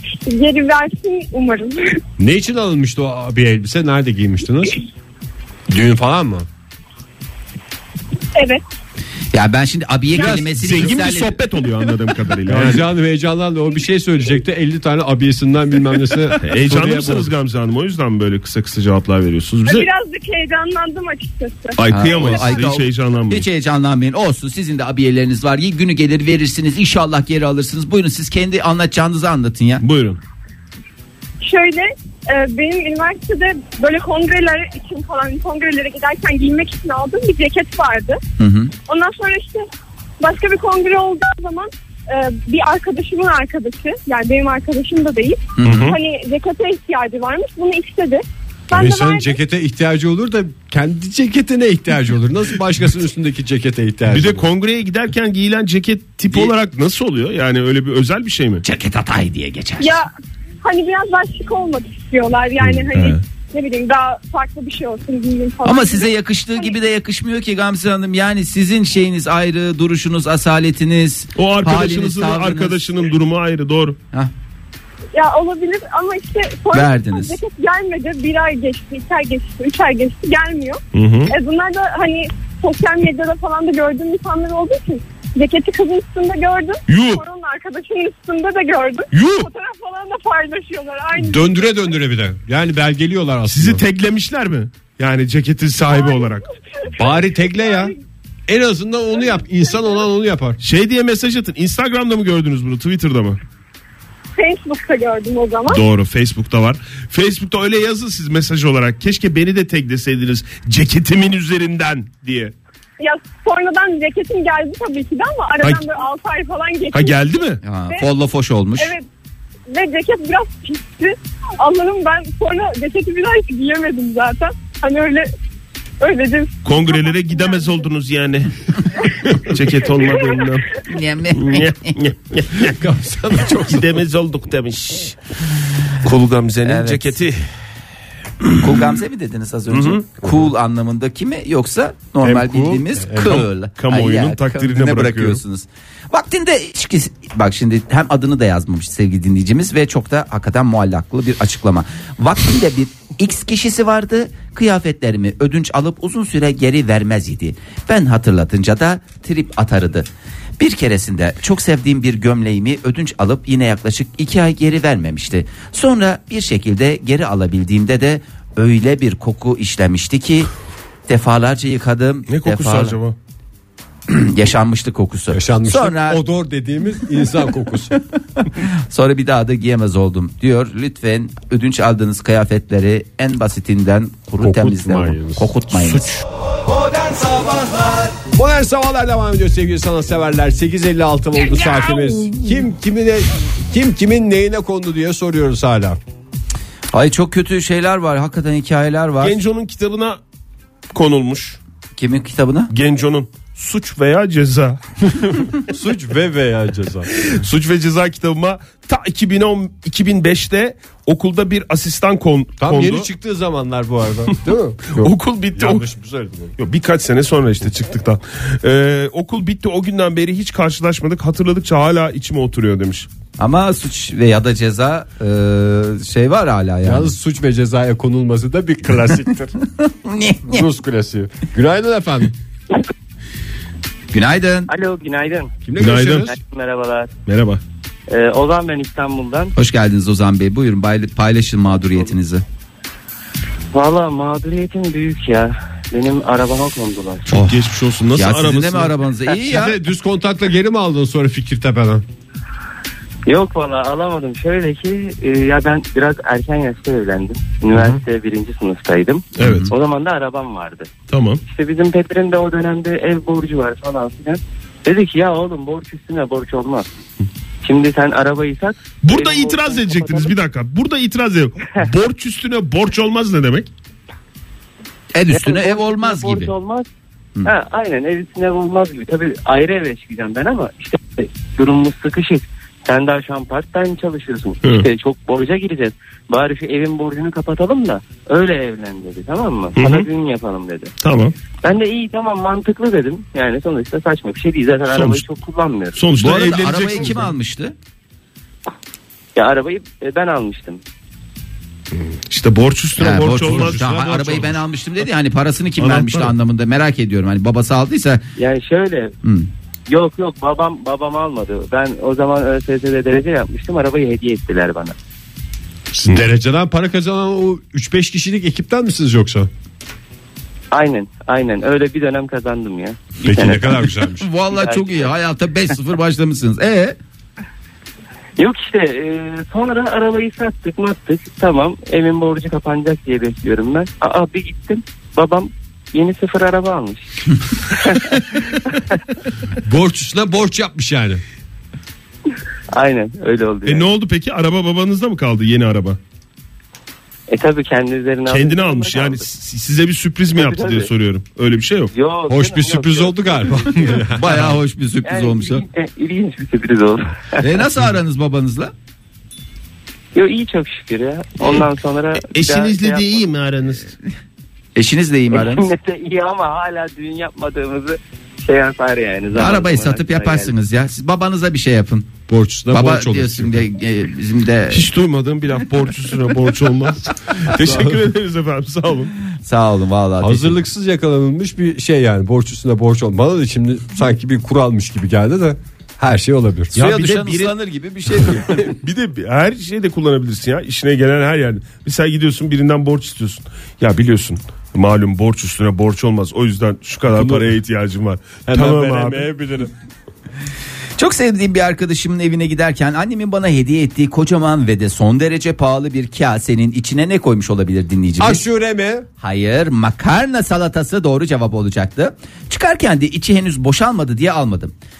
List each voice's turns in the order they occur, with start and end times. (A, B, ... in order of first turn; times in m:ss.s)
0:00.2-0:02.0 A
0:02.2-0:04.8 B
0:05.7-0:06.5 B
0:08.3-0:08.6 A
0:09.3-0:11.4 C
0:10.1-0:12.9 D
0:12.5-0:17.3 B
0:16.4-0:19.9 D
0:19.6-0:22.5 A
0:21.8-0:23.4 D
0:21.9-0:29.8 C
0:29.8-0:30.2 D
0:31.4-0:38.2 A
0:38.4-0:38.7 C
0:38.9-0:39.6 A
0:40.2-0:49.4 A
0:45.6-0:45.9 C
0:45.6-0:46.0 D
0:48.7-0:54.5 B
0:54.1-0:58.6 D
0:58.6-1:00.0 C
0:59.8-1:00.1 A
1:00.6-1:06.7 A
1:02.9-1:03.2 D
1:05.6-1:12.8 C
1:11.4-1:14.0 D
1:15.1-1:31.9 A
1:16.7-1:17.4 C
1:20.9-1:21.3 D
1:26.9-1:27.2 D
1:29.1-1:29.5 D
1:31.2-1:33.8 B
1:33.5-1:36.5 D
1:35.8-1:38.0 A
1:36.9-1:37.9 B
1:38.5-1:40.6 B
1:39.3-1:39.9 A
1:40.6-1:43.4 D
1:44.4-1:45.8 A
1:45.7-1:52.5 D
1:53.0-1:57.3 A
1:56.9-1:57.6 D
1:57.6-1:58.9 C
1:58.8-1:59.0 A
1:59.7-2:05.3 A
2:06.0-2:07.8 A
2:06.6-2:10.7 D
2:09.9-2:10.5 A
2:10.8-2:12.0 C
2:11.3-2:12.8 D
2:12.6-2:14.0 B
2:13.3-2:15.2 D
2:16.0-2:17.5 D
2:16.6-2:17.2 C
2:18.5-2:40.1 C
2:18.5-2:18.8 D
2:19.7-2:20.1 D
2:22.2-2:23.4 B
2:23.3-2:25.4 D
2:40.6-2:50.5 C
2:51.1-2:53.0 C
2:52.3-2:53.2 D
2:54.1-2:56.2 C
2:55.3-2:57.9 B
2:57.9-3:06.2 C
3:04.4-3:06.0 B
3:08.2-3:16.0 B
3:16.9-3:19.4 C
3:19.2-3:20.2 D
3:20.9-3:21.6 D
3:22.0-3:22.7 C
3:22.7-3:25.6 D
3:25.7-3:27.1 B
3:27.1-3:33.1 D
3:32.6-3:36.6 B
3:34.9-3:35.8 D
3:36.6-3:43.1 D
3:43.4-3:47.1 C
3:46.8-3:49.5 B
3:49.8-3:50.7 C
3:50.5-3:52.3 B
3:54.1-3:54.7 C
3:54.7-3:55.5 E
3:55.6-3:56.3 B
3:55.8-3:56.3 D
3:56.1-3:57.1 E
3:57.3-3:57.6 D
3:58.1-3:59.5 E
3:59.6-4:02.4 C
4:03.7-4:07.3 E
4:07.3-4:08.9 D
4:07.3-4:09.8 C
4:09.3-4:12.0 B
4:13.3-4:20.9 E
4:19.4-4:19.7 D
4:19.4-4:19.7 C
4:21.1-4:21.4 D
4:21.5-4:26.9 E
4:27.6-4:30.3 E
4:29.0-4:33.7 D
4:35.1-4:36.5 C
4:35.3-4:36.8 E
4:37.4-4:50.9 E
4:49.8-4:50.1 D
4:51.0-4:51.3 D
4:51.6-4:56.0 E
4:54.9-4:55.2 D
4:55.9-4:57.3 D
4:56.2-4:57.7 C
4:59.4-5:00.8 E
5:02.3-5:04.4 D
5:03.0-5:08.2 C
5:03.4-5:04.5 B
5:05.8-5:06.3 D
5:08.4-5:09.1 E
5:09.2-5:09.5 C
5:09.9-5:14.9 E
5:15.9-5:19.5 B
5:20.7-5:23.8 E
5:23.2-5:24.3 B
5:24.2-5:27.0 C
5:24.5-5:25.1 E
5:28.4-5:39.0 E
5:39.6-5:41.2 B
5:42.7-5:43.9 E
5:43.6-5:46.0 D
5:47.3-5:49.2 E
5:48.3-5:51.9 D
5:50.3-5:50.9 E
5:51.9-5:53.7 E
5:52.3-5:54.4 B
5:54.1-5:55.6 C
5:55.0-5:57.4 E
5:57.4-5:58.7 C
6:00.1-6:03.2 E
6:02.2-6:03.9 D
6:04.7-6:05.7 C
6:05.3-6:10.5 E
6:09.3-6:12.1 C
6:12.3-6:13.7 B
6:12.7-6:14.9 C
6:14.7-6:19.1 D
6:19.4-6:20.6 C
6:20.2-6:26.7 B
6:26.7-6:27.6 D
6:26.7-6:28.7 C
6:28.2-6:39.3 D
6:37.1-6:37.5 B
6:38.5-6:39.7 B
6:41.0-6:48.4 C
6:48.2-6:49.1 B
6:49.2-6:54.7 C